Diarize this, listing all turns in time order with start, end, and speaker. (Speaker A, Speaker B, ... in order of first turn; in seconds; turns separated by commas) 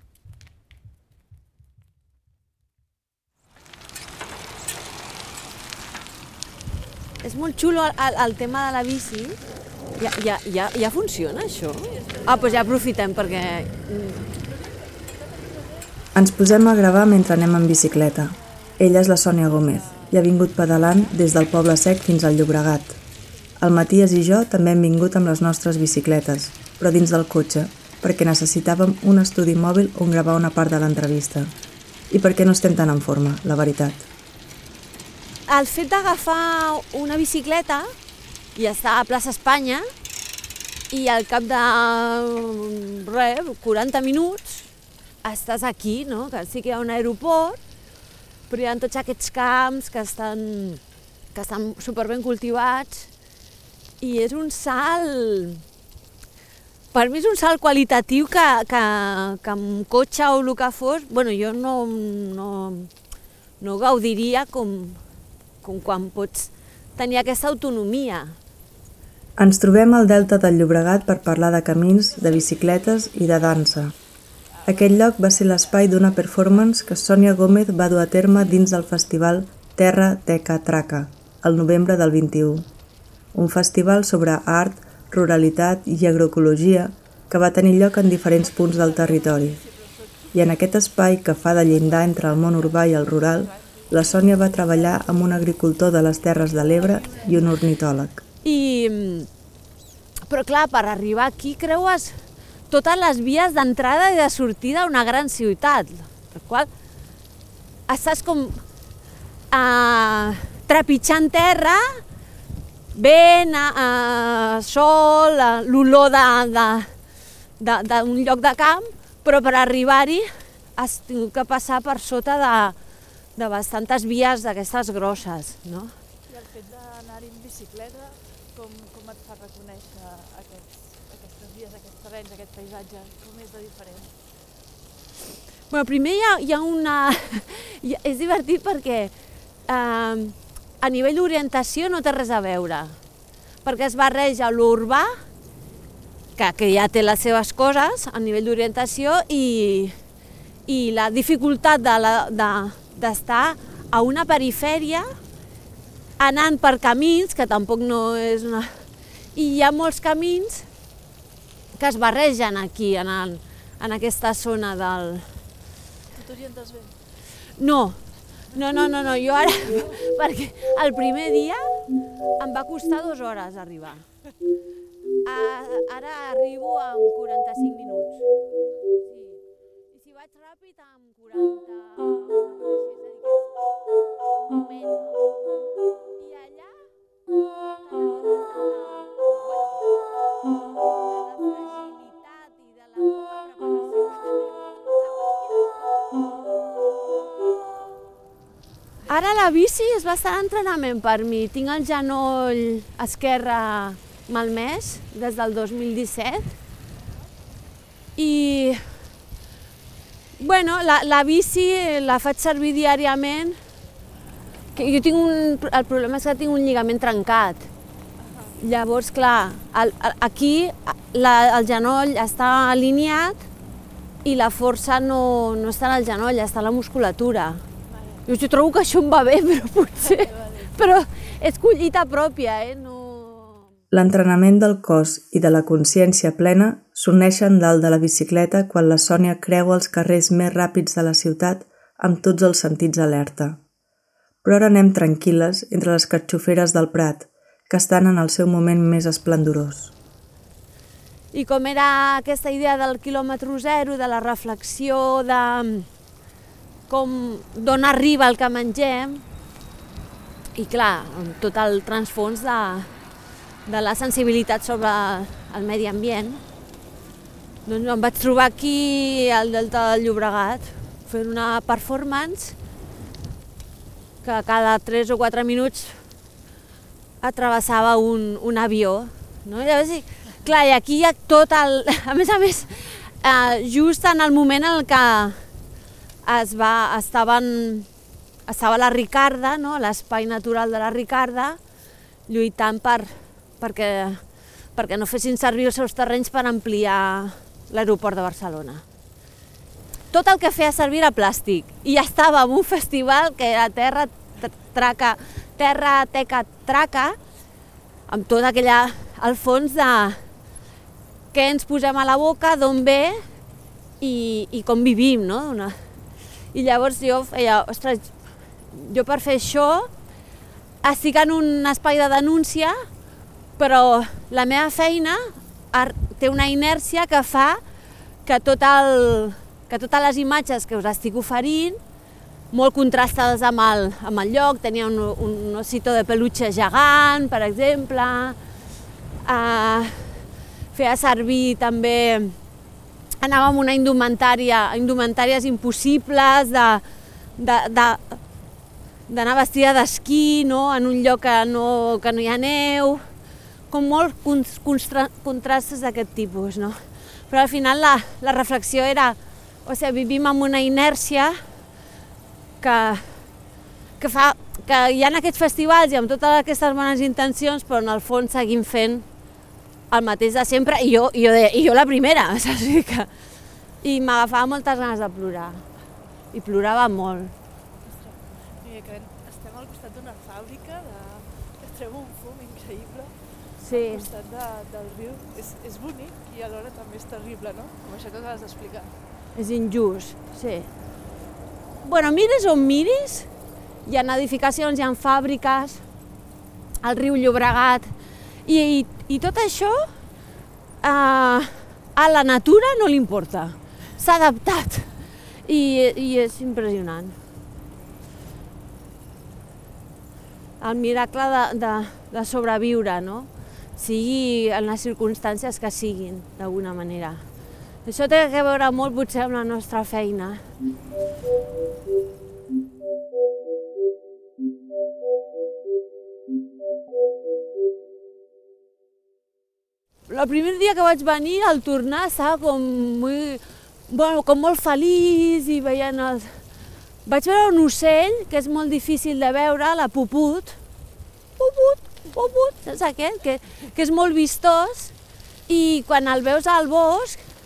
Speaker A: 7.2-9.4, Speaker A: 10.0-14.2, Speaker B: 11.9-12.8, Speaker B: 14.3-16.1, Speaker C: 16.1-23.0, Speaker B: 17.4-21.7, Speaker B: 23.1-23.7, Speaker C: 23.6-31.5, Speaker C: 32.1-34.1, Speaker A: 35.5-37.9, Speaker A: 38.6-39.9, Speaker A: 40.9-44.7, Speaker A: 45.2-47.6, Speaker A: 48.5-50.8, Speaker A: 51.3-53.1, Speaker A: 54.0-55.6, Speaker A: 56.9-62.9, Speaker A: 63.6-65.0, Speaker A: 65.6-68.4, Speaker C: 69.4-73.9, Speaker B: 72.0-73.8, Speaker B: 74.5-77.0, Speaker C: 74.7-82.7, Speaker C: 83.3-89.6, Speaker B: 88.4-97.6, Speaker C: 90.3-98.2, Speaker A: 98.4-99.3, Speaker A: 100.3-102.2, Speaker A: 102.7-106.7, Speaker A: 107.9-108.6, Speaker A: 109.5-112.0, Speaker A: 112.9-116.9, Speaker A: 117.6-122.8, Speaker A: 123.4-125.9, Speaker B: 126.3-134.1, Speaker A: 135.7-139.1, Speaker A: 139.7-143.0, Speaker A: 143.6-145.1, Speaker A: 146.4-149.9, Speaker A: 150.7-155.1, Speaker A: 156.2-158.7, Speaker A: 159.3-160.7, Speaker A: 161.8-165.3, Speaker B: 166.1-167.0, Speaker A: 167.6-168.0, Speaker B: 168.5-170.1, Speaker A: 168.5-171.6, Speaker A: 172.4-174.1, Speaker A: 175.2-178.2, Speaker A: 179.9-183.4, Speaker B: 184.5-185.2, Speaker A: 184.6-184.9, Speaker B: 186.2-186.5, Speaker A: 186.2-186.7, Speaker B: 187.9-188.5, Speaker A: 188.5-189.8, Speaker B: 190.8-191.3, Speaker A: 191.1-193.3, Speaker B: 193.0-196.2, Speaker A: 194.1-194.4, Speaker A: 199.1-206.5, Speaker A: 208.2-209.0, Speaker A: 210.4-213.6, Speaker A: 214.8-217.7, Speaker B: 218.2-218.6, Speaker A: 218.6-223.5, Speaker A: 224.2-227.6, Speaker B: 227.9-228.2, Speaker A: 228.3-233.6, Speaker B: 230.0-231.0, Speaker C: 233.9-243.6, Speaker C: 244.4-249.9, Speaker A: 251.3-255.9, Speaker A: 256.9-259.2, Speaker A: 260.6-262.9, Speaker A: 263.7-266.4, Speaker A: 267.7-272.6, Speaker A: 274.2-276.0, Speaker A: 277.2-285.4, Speaker A: 286.2-287.9, Speaker A: 288.5-291.6, Speaker A: 292.3-294.2, Speaker A: 294.8-298.8, Speaker A: 300.1-307.2, Speaker A: 308.1-310.2, Speaker A: 311.3-313.2, Speaker A: 314.0-315.8, Speaker A: 316.5-318.1, Speaker A: 318.7-319.9, Speaker A: 320.8-322.8, Speaker A: 323.6-327.6, Speaker A: 328.2-331.8, Speaker A: 332.5-338.4, Speaker A: 339.2-342.4, Speaker A: 343.2-346.8, Speaker A: 347.4-348.2, Speaker A: 349.1-353.0, Speaker A: 353.7-356.8, Speaker A: 357.3-361.4, Speaker A: 362.6-363.2, Speaker A: 364.0-369.1, Speaker A: 369.9-373.1, Speaker A: 373.8-375.6, Speaker A: 376.3-377.3, Speaker B: 377.8-383.1, Speaker A: 383.6-384.1, Speaker B: 383.7-388.9, Speaker A: 389.4-390.7, Speaker A: 391.8-393.3, Speaker A: 393.9-395.8, Speaker A: 396.8-397.9, Speaker A: 398.5-399.9, Speaker A: 400.8-404.9, Speaker A: 405.5-407.2, Speaker A: 410.6-417.2, Speaker A: 417.9-420.4, Speaker A: 430.1-436.4, Speaker A: 437.1-440.6, Speaker A: 441.4-444.9, Speaker A: 445.5-447.2